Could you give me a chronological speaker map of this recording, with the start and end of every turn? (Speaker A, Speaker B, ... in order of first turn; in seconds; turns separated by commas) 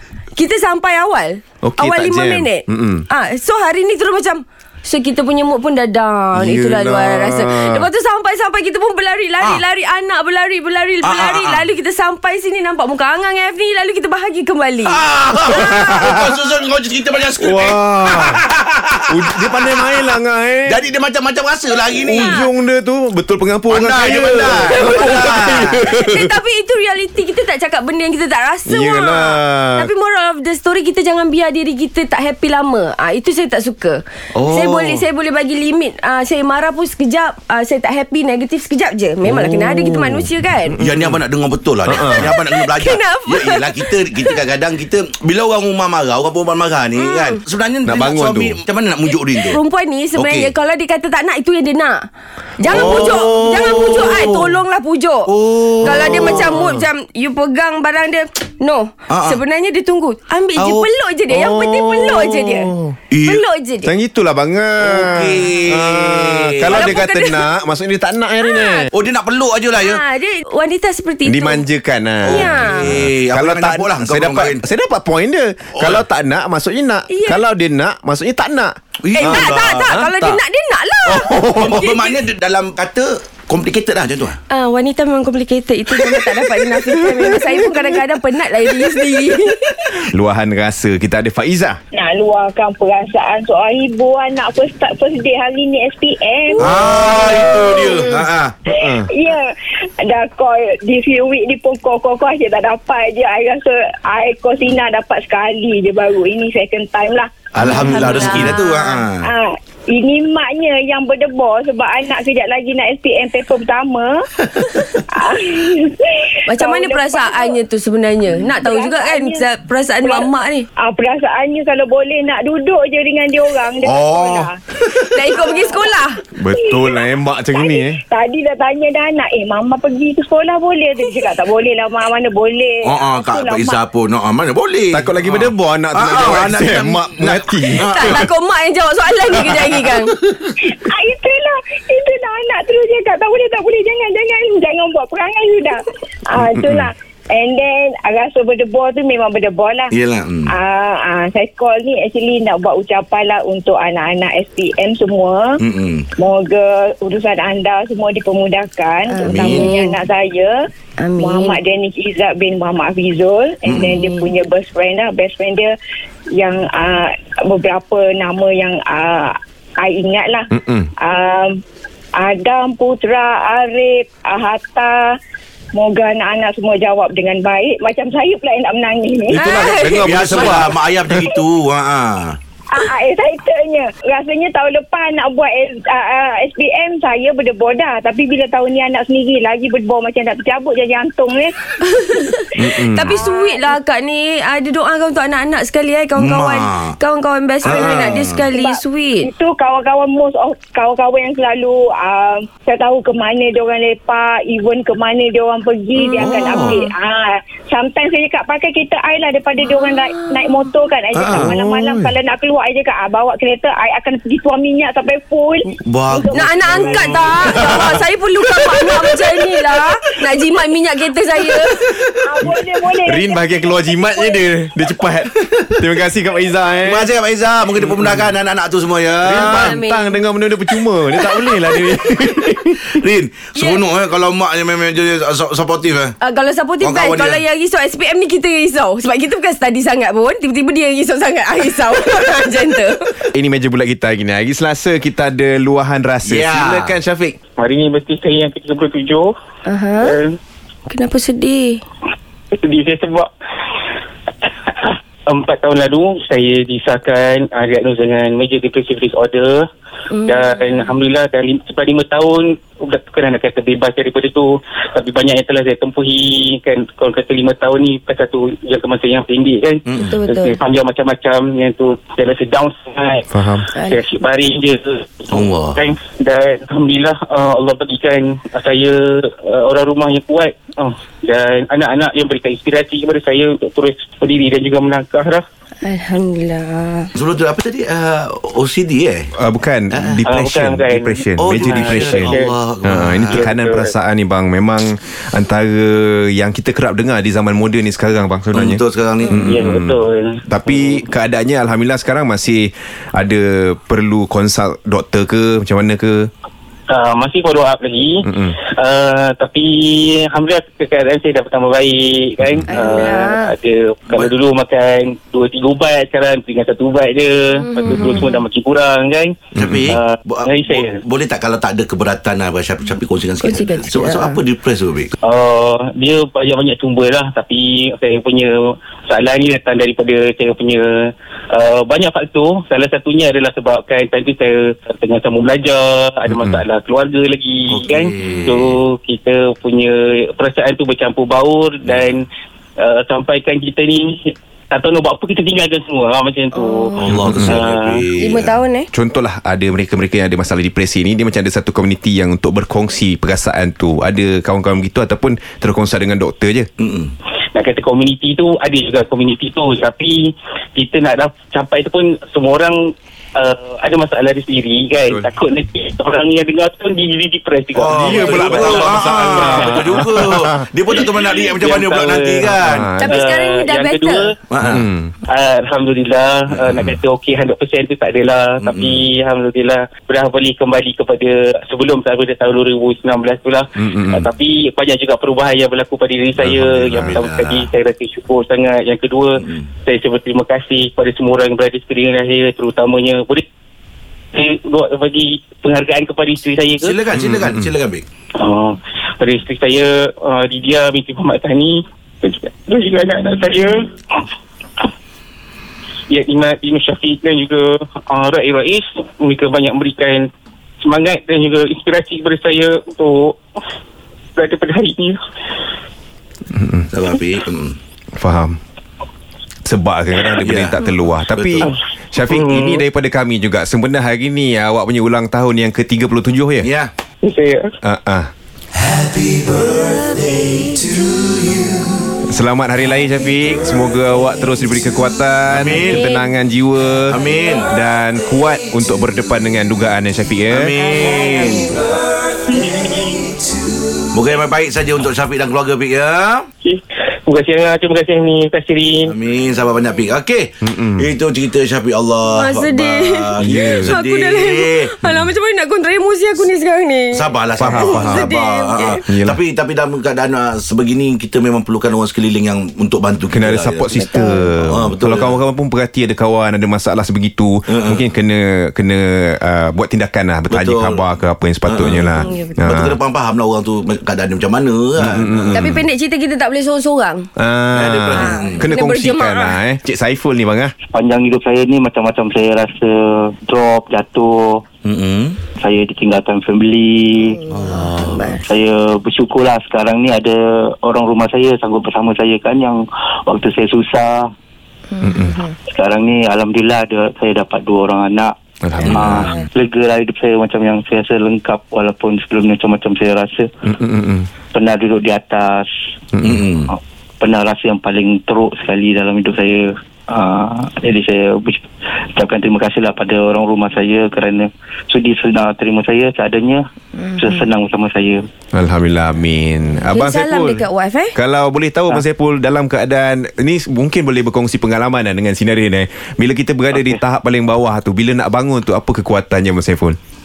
Speaker A: 0.3-15.0, Speaker B: 1.6-3.0, Speaker B: 6.3-7.9, Speaker C: 11.0-11.7, Speaker C: 14.8-19.9, Speaker B: 15.5-16.3, Speaker B: 17.4-18.4, Speaker B: 19.1-20.8, Speaker C: 20.7-22.3, Speaker B: 21.9-26.3, Speaker A: 22.1-22.5, Speaker C: 23.7-25.9, Speaker A: 24.7-40.8, Speaker B: 28.7-29.9, Speaker C: 34.5-35.0, Speaker B: 39.2-41.2, Speaker C: 40.8-49.6, Speaker B: 41.9-42.3, Speaker A: 42.1-43.9, Speaker A: 47.0-47.4, Speaker B: 47.8-48.6, Speaker A: 49.4-52.0, Speaker C: 50.1-50.5, Speaker A: 52.6-55.3, Speaker C: 52.7-54.5, Speaker C: 55.3-56.7, Speaker A: 55.8-62.7, Speaker B: 55.9-56.3, Speaker C: 59.1-59.4, Speaker C: 60.6-60.9, Speaker B: 61.3-63.0, Speaker C: 63.1-63.4, Speaker A: 63.2-63.9, Speaker B: 63.8-68.9, Speaker C: 64.8-66.9, Speaker A: 66.7-67.4, Speaker A: 68.4-68.9, Speaker C: 68.9-70.0, Speaker A: 69.8-71.6, Speaker B: 71.2-80.3, Speaker C: 72.2-74.6, Speaker A: 72.3-72.9, Speaker C: 75.8-76.0, Speaker A: 77.1-77.4, Speaker C: 79.0-80.3, Speaker A: 79.2-82.1, Speaker C: 81.1-84.4, Speaker B: 81.1-81.8, Speaker A: 84.5-89.8, Speaker B: 90.0-91.8, Speaker D: 91.9-108.3, Speaker C: 96.6-98.6, Speaker B: 98.7-99.0, Speaker C: 107.5-109.3, Speaker A: 107.6-109.0, Speaker D: 109.2-114.2, Speaker D: 114.8-117.6, Speaker A: 116.5-120.7, Speaker D: 118.3-119.5, Speaker D: 120.0-124.5, Speaker C: 123.8-125.1, Speaker A: 125.1-126.2, Speaker D: 125.4-125.9, Speaker B: 126.3-128.0, Speaker D: 126.5-133.8, Speaker C: 132.8-138.3, Speaker B: 134.9-138.3, Speaker A: 137.8-140.2, Speaker C: 139.6-140.5, Speaker D: 140.6-149.9, Speaker B: 146.5-146.8, Speaker C: 149.9-150.5, Speaker D: 150.4-155.6, Speaker C: 155.6-156.1, Speaker D: 156.2-160.6, Speaker A: 159.1-160.0, Speaker C: 159.2-159.7, Speaker A: 161.0-161.6, Speaker D: 161.2-165.7, Speaker C: 163.7-163.9, Speaker A: 164.0-164.3, Speaker D: 166.3-171.6, Speaker B: 170.5-170.9, Speaker D: 172.2-175.0, Speaker D: 175.7-179.7, Speaker C: 179.3-182.4, Speaker A: 179.3-180.3, Speaker B: 179.7-181.2, Speaker D: 182.7-191.5, Speaker A: 191.9-199.3, Speaker B: 192.6-193.1, Speaker D: 193.1-193.8, Speaker C: 196.2-196.9, Speaker C: 197.6-198.4, Speaker D: 197.6-197.9, Speaker D: 198.5-217.9, Speaker C: 206.0-206.9, Speaker C: 211.1-211.5, Speaker C: 215.8-219.4, Speaker A: 216.3-221.8, Speaker D: 221.8-224.3, Speaker B: 223.1-227.1, Speaker C: 226.8-229.7, Speaker B: 227.8-228.3, Speaker B: 229.2-233.0, Speaker A: 229.3-230.1, Speaker C: 232.9-236.1, Speaker A: 236.2-243.1, Speaker C: 236.8-237.4, Speaker B: 243.3-247.3, Speaker C: 246.2-246.9, Speaker E: 247.6-249.3, Speaker A: 249.7-250.2, Speaker E: 250.0-250.3, Speaker A: 250.9-251.8, Speaker E: 252.6-253.3, Speaker E: 254.7-259.6, Speaker A: 260.1-260.9, Speaker E: 260.2-285.4, Speaker C: 269.9-270.1, Speaker A: 270.0-270.6, Speaker B: 273.3-273.6, Speaker A: 273.7-274.0, Speaker C: 275.3-275.8, Speaker A: 285.8-287.1, Speaker C: 287.1-289.3, Speaker B: 289.4-306.3, Speaker C: 289.9-290.2, Speaker E: 290.2-292.5, Speaker C: 291.4-293.5, Speaker E: 293.3-293.9, Speaker C: 298.5-299.4, Speaker E: 299.3-301.0, Speaker E: 306.9-319.4, Speaker B: 308.2-308.6, Speaker A: 312.7-313.5, Speaker A: 317.6-318.4, Speaker C: 319.5-325.1, Speaker B: 319.6-319.9, Speaker E: 319.9-321.0, Speaker A: 323.4-324.4, Speaker E: 325.2-330.9, Speaker E: 331.5-342.2, Speaker B: 336.3-336.6, Speaker C: 337.7-338.8, Speaker C: 341.8-342.2, Speaker E: 342.8-347.9, Speaker A: 346.5-347.0, Speaker C: 347.0-348.6, Speaker B: 347.1-347.6, Speaker A: 348.2-348.9, Speaker B: 348.9-356.7, Speaker C: 356.8-357.1, Speaker E: 357.5-362.8, Speaker E: 363.4-369.9, Speaker C: 367.8-372.9, Speaker B: 367.9-370.6, Speaker E: 371.1-374.3, Speaker B: 372.4-373.2, Speaker A: 373.0-374.3, Speaker C: 374.5-374.9, Speaker B: 374.6-375.1, Speaker E: 375.3-393.4, Speaker C: 376.6-376.8, Speaker C: 378.6-379.0, Speaker B: 383.8-384.3, Speaker B: 386.4-387.2, Speaker C: 386.9-387.7, Speaker E: 394.3-397.0, Speaker C: 396.8-398.0, Speaker B: 397.1-397.7, Speaker E: 398.4-403.9, Speaker E: 406.1-410.3, Speaker E: 410.8-413.4, Speaker E: 414.4-415.2, Speaker B: 416.5-416.9, Speaker C: 416.9-417.8, Speaker B: 418.2-418.6, Speaker B: 419.6-426.7, Speaker C: 420.4-421.7, Speaker E: 422.3-422.8, Speaker C: 426.6-426.9, Speaker E: 427.2-427.7, Speaker B: 427.8-428.3, Speaker C: 428.8-432.0, Speaker B: 432.2-440.8, Speaker C: 435.5-436.1, Speaker A: 435.9-436.2, Speaker C: 437.1-437.7, Speaker C: 440.5-441.8, Speaker E: 442.5-443.3, Speaker C: 444.1-446.4, Speaker E: 446.6-449.1, Speaker C: 449.1-454.9, Speaker B: 450.6-451.1, Speaker A: 452.3-459.0, Speaker B: 453.4-454.0, Speaker B: 455.0-455.3, Speaker C: 457.1-464.0, Speaker B: 457.6-458.3, Speaker B: 459.1-459.4, Speaker B: 463.3-473.0, Speaker A: 464.0-464.5, Speaker C: 464.7-465.4, Speaker C: 467.7-468.0, Speaker C: 470.5-471.0, Speaker C: 471.6-475.5, Speaker A: 472.2-472.5, Speaker B: 475.0-475.8, Speaker A: 475.5-477.3, Speaker B: 477.4-480.7, Speaker C: 477.7-478.7, Speaker A: 478.1-479.6, Speaker F: 480.9-484.6, Speaker C: 484.8-485.4, Speaker F: 485.6-487.4, Speaker A: 487.3-488.4, Speaker C: 487.5-488.4, Speaker F: 488.4-494.2, Speaker A: 495.0-495.5, Speaker B: 495.0-495.4, Speaker F: 495.7-498.3, Speaker B: 498.6-499.3, Speaker F: 498.9-503.5, Speaker C: 498.9-499.4, Speaker B: 503.6-504.3, Speaker F: 504.5-505.6, Speaker B: 506.1-506.4, Speaker C: 506.2-506.7, Speaker F: 506.7-511.6, Speaker F: 512.1-516.6, Speaker A: 517.0-517.5, Speaker F: 517.1-518.2, Speaker B: 518.5-520.6, Speaker A: 519.9-521.1, Speaker B: 521.1-530.0, Speaker F: 526.7-527.0